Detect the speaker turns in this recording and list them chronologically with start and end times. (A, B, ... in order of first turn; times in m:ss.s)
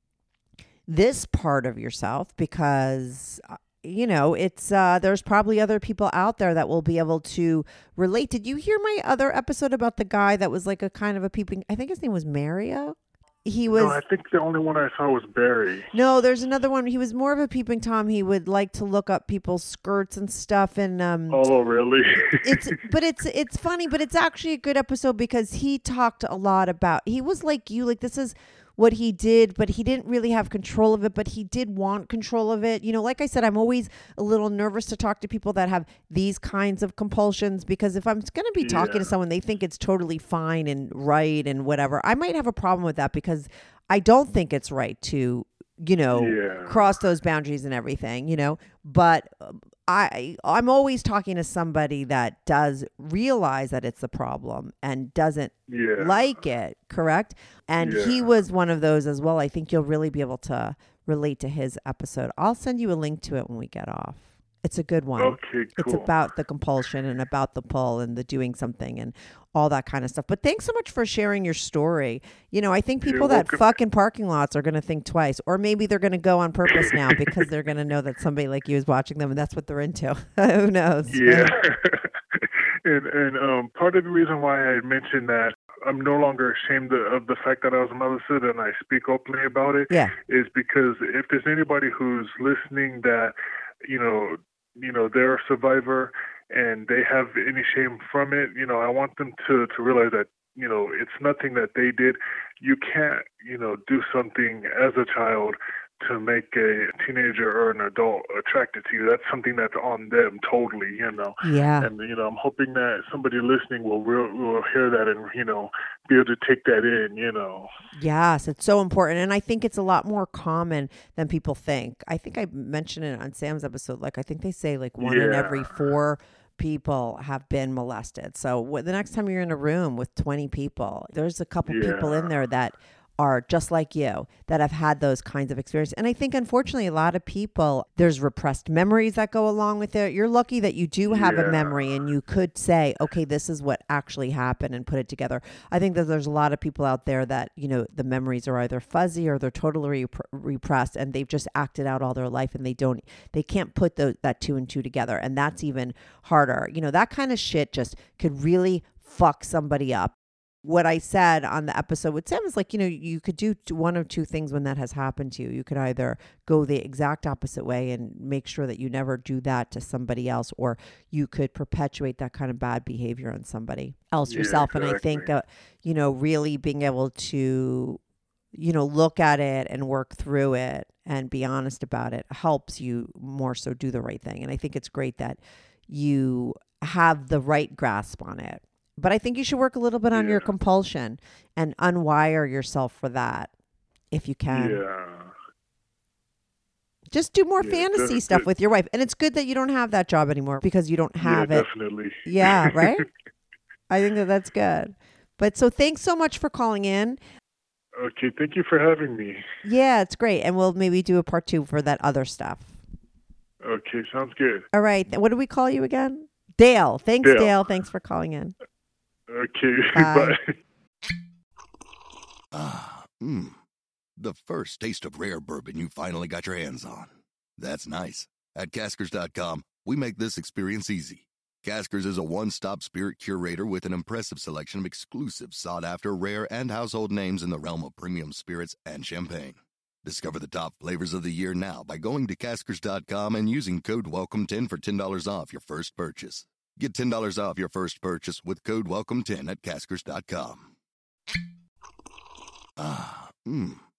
0:00.9-0:14.0 A
0:13.7-0:15.9 B
0:15.9-0:21.5 A
0:21.3-0:22.8 B
0:22.4-1:21.5 A
0:38.6-0:39.1 B
0:46.1-0:46.9 B
0:55.7-0:56.2 B
0:57.8-0:58.3 B
1:05.2-1:06.1 B
1:13.0-1:13.7 B
1:16.8-1:17.1 B
1:21.1-1:33.3 B
1:33.9-1:57.7 B
1:51.4-1:51.9 A
1:57.9-2:58.0 A
2:05.0-2:05.8 B
2:11.6-2:12.3 B
2:21.0-2:22.0 B
2:54.2-2:55.3 B
2:58.5-3:13.5 A
3:10.1-3:10.5 B
3:14.1-3:14.8 A
3:14.5-3:15.3 B
3:17.1-3:21.7 A
3:17.6-3:18.5 B
3:21.2-3:23.0 B
3:22.2-3:23.0 A
3:23.9-3:27.2 A
3:28.0-3:29.4 B
3:29.6-3:32.8 A
3:33.6-3:34.6 B
3:34.7-3:38.5 A
3:37.2-3:37.5 B
3:39.3-3:40.5 B
3:39.9-3:40.4 A
3:42.5-3:43.6 C
3:44.2-4:10.7 C
4:12.8-4:13.8 C